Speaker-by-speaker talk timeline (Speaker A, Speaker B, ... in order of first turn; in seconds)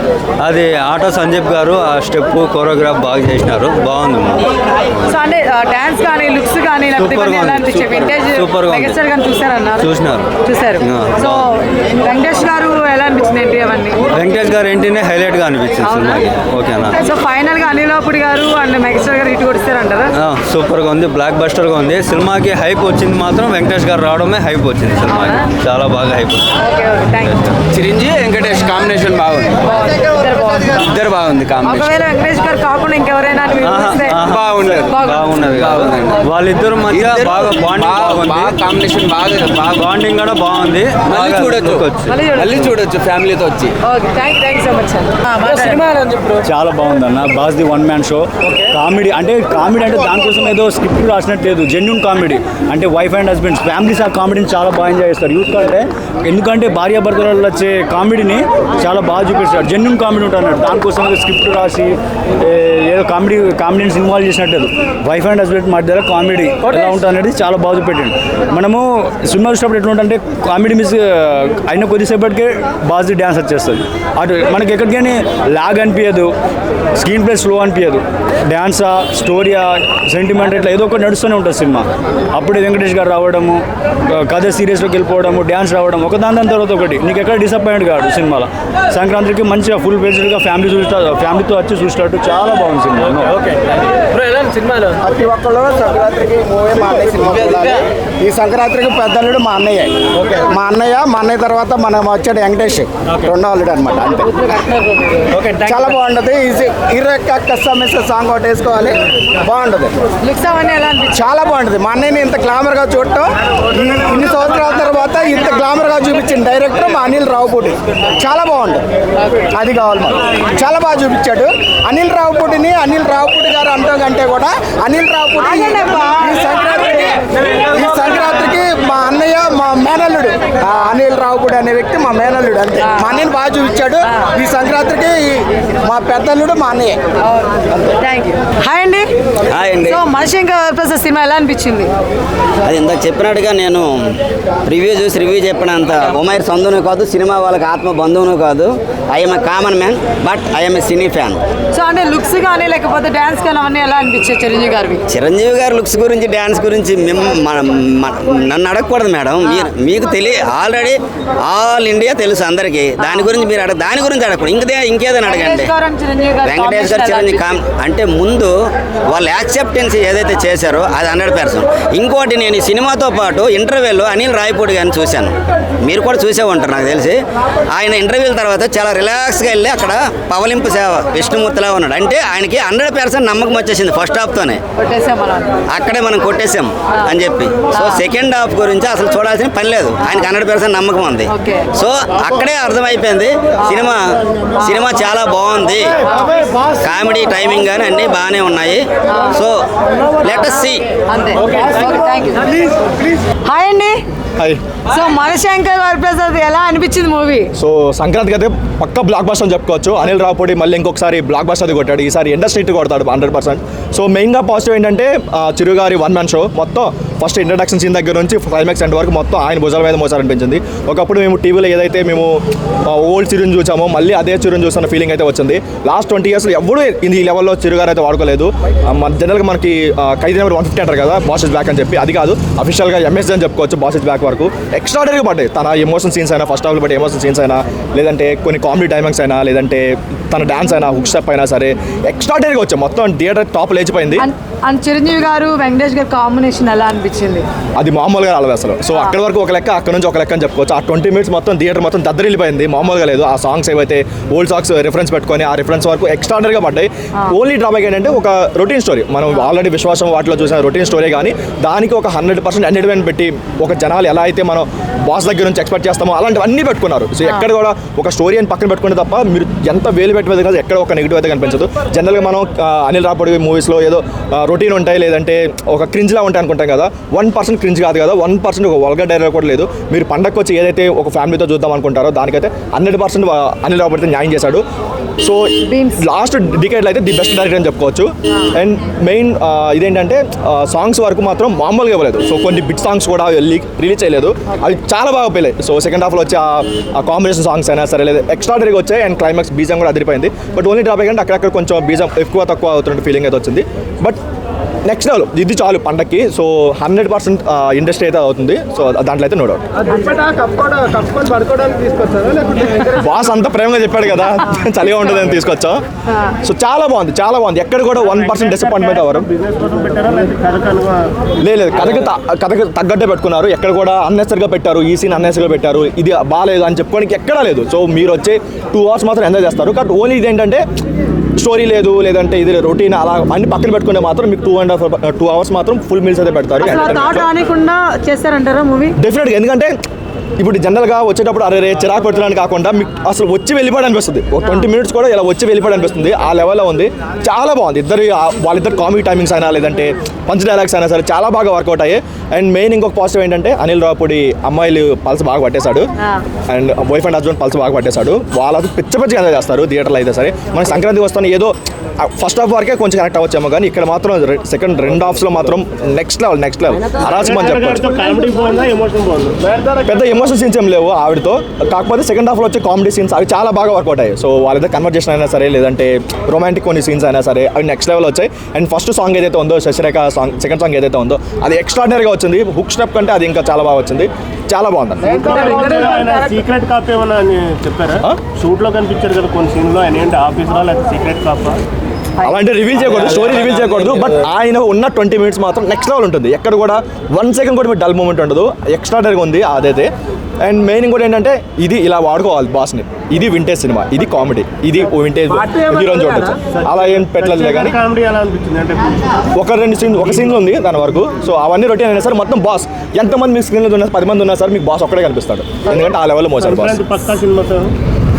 Speaker A: 0.4-4.5, 7.0-9.0, 9.8-11.4, 14.1-17.0, 20.2-26.5, 27.2-27.5, 33.6-38.6, 39.7-42.7
Speaker B: 5.1-14.0, 15.8-16.2, 16.9-20.1, 26.6-27.5, 29.7-30.9, 31.6-34.2, 34.9-35.3, 42.1-42.7, 43.8-45.9, 110.2-111.2, 125.4-127.0, 138.0-139.1, 139.8-141.9, 151.7-155.0, 163.0-163.3, 165.2-167.4, 184.8-185.6, 187.7-188.0, 191.3-191.7, 201.1-202.7, 203.4-204.0, 204.9-207.5, 244.2-247.4, 285.6-286.0, 310.1-310.5, 336.6-339.0, 385.3-386.2
Speaker C: 27.7-29.7, 30.8-31.9, 34.3-34.9, 35.5-36.1, 36.9-39.9, 41.1-41.8, 42.3-43.8, 45.7-46.4, 94.4-94.8
Speaker D: 46.4-76.3, 77.0-93.4
Speaker E: 95.0-104.6, 105.4-110.0, 111.1-118.8, 119.5-137.0
Speaker F: 139.5-140.0, 142.7-143.9, 144.7-151.4, 155.1-160.9, 161.5-165.7, 166.4-168.5, 169.1-175.3, 175.8-177.2, 177.7-184.6, 185.7-194.0, 194.6-195.9, 196.7-199.6, 200.2-200.8
Speaker G: 207.6-222.3, 222.9-244.2, 247.8-284.6, 285.2-304.2, 304.9-309.6, 312.7-315.8, 316.4-319.3, 321.4-330.6, 331.4-337.3, 339.0-339.7, 340.4-355.9, 356.5-368.0, 369.9-385.2, 392.2-399.9, 400.4-407.8, 409.4-416.8
Speaker H: 318.1-321.0, 367.2-369.9, 385.2-391.6, 406.4-409.0, 416.4-417.7